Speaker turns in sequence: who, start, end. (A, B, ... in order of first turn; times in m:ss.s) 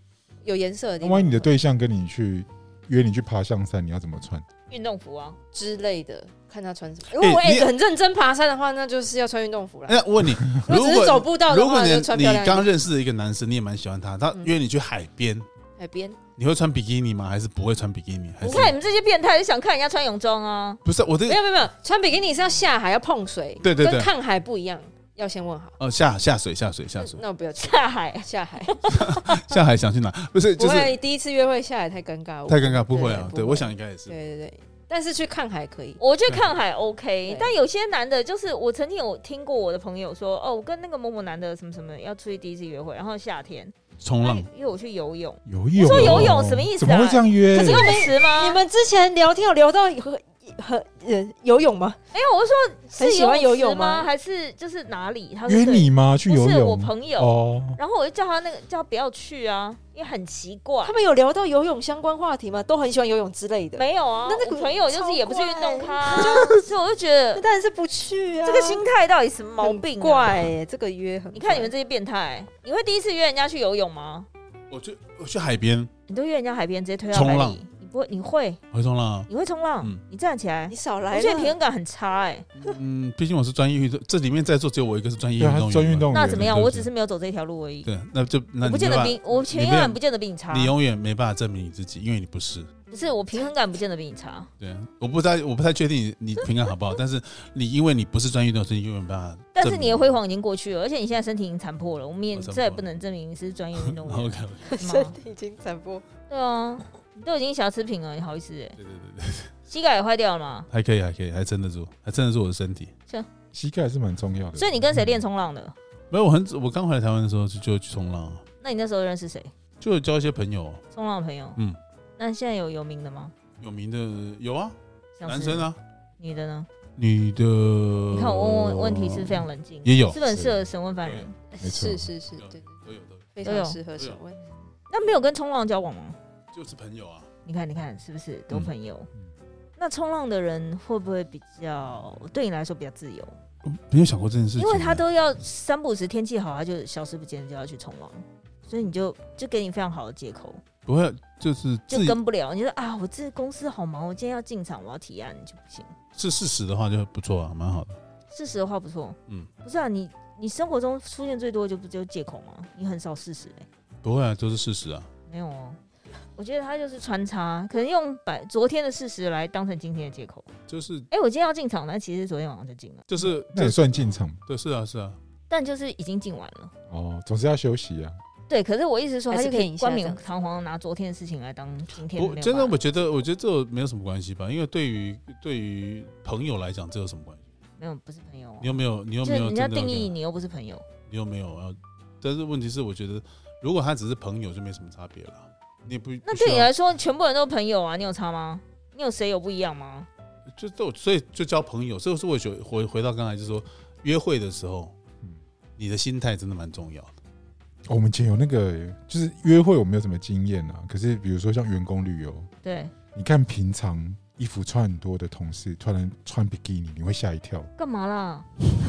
0:00.4-0:01.5 A
0:01.0-0:04.5 B
0:04.7-0:05.4 C
0:05.5-0:10.0 A
0:07.2-0:07.7 D
0:09.9-0:15.5 D
0:10.6-0:12.7 A
0:15.8-0:16.2 A
0:16.4-0:18.8 D
0:18.4-0:20.8 C
0:20.8-0:21.4 D
0:21.3-0:25.8 A
0:23.6-0:24.1 D
0:25.8-0:27.2 D
0:27.0-0:28.8 A
0:27.6-0:29.4 C
0:28.9-0:31.0 D
0:30.6-0:36.0 A
0:32.5-0:34.2 D
0:36.0-0:48.6 C
0:37.3-0:37.5 A
0:44.0-0:44.5 D
0:45.5-0:48.1 B
0:45.9-0:46.3 D
0:47.5-0:52.0 A
0:52.1-1:01.0 C
0:53.0-0:54.1 A
0:55.5-0:57.8 B
1:00.8-1:06.6 A
1:03.8-1:07.4 C
1:07.4-1:08.9 A
1:08.4-1:10.5 C
1:09.6-1:11.7 A
1:11.3-1:14.3 C
1:14.7-1:15.9 D
1:16.1-1:18.6 C
1:17.1-1:17.6 D
1:18.7-1:19.3 D
1:19.3-1:22.5 C
1:20.7-1:21.6 A
1:22.6-1:26.9 D
1:25.4-1:26.8 B
1:26.1-1:27.9 C
1:27.8-1:32.7 D
1:28.6-1:30.7 C
1:32.9-1:34.5 C
1:34.6-1:40.2 D
1:39.6-1:45.2 C
1:42.3-1:42.9 D
1:43.8-1:44.7 D
1:44.7-1:46.0 A
1:46.3-1:48.8 C
1:48.8-1:49.5 D
1:49.7-1:50.7 C
1:50.7-1:52.9 D
1:53.5-1:55.0 B
1:54.6-1:55.8 C
1:56.1-1:58.4 D
1:58.6-1:59.5 C
1:59.8-2:00.8 D
2:00.9-2:01.6 C
2:02.2-2:03.3 C
2:03.6-2:05.8 D
2:05.2-2:05.7 C
2:06.2-2:06.7 C
2:07.0-2:10.2 D
2:08.1-2:11.4 C
2:10.2-2:10.6 B
2:11.5-2:12.7 A
2:11.6-2:12.1 B
2:12.4-2:13.3 D
2:13.4-2:14.4 A
2:13.4-2:13.8 C
2:14.9-2:16.2 C
2:16.5-2:17.3 D
2:17.4-2:19.1 C
2:19.8-2:23.4 C
2:23.6-2:25.0 D
2:24.6-2:30.6 C
2:30.9-2:32.2 D
2:31.9-2:35.9 C
2:36.2-2:38.0 D
2:38.3-2:43.7 C
2:44.0-2:45.1 D
2:45.3-2:45.8 C
2:46.4-2:50.5 C
2:50.7-2:51.1 D
2:51.1-2:53.0 C
2:53.1-2:55.2 D
2:53.2-2:54.4 B
2:55.5-2:56.7 C
2:56.9-2:58.2 B
2:58.5-3:02.8 C
2:59.3-3:00.2 A
3:02.1-3:07.4 D
3:07.8-3:10.8 C
3:08.6-3:10.1 D
3:11.1-3:16.7 D
3:16.2-3:20.1 C
3:20.5-3:24.9 D
3:25.8-3:27.2 D
3:27.9-3:32.5 B
3:32.6-3:32.9 C
3:33.2-3:37.7 B
3:37.8-3:38.5 C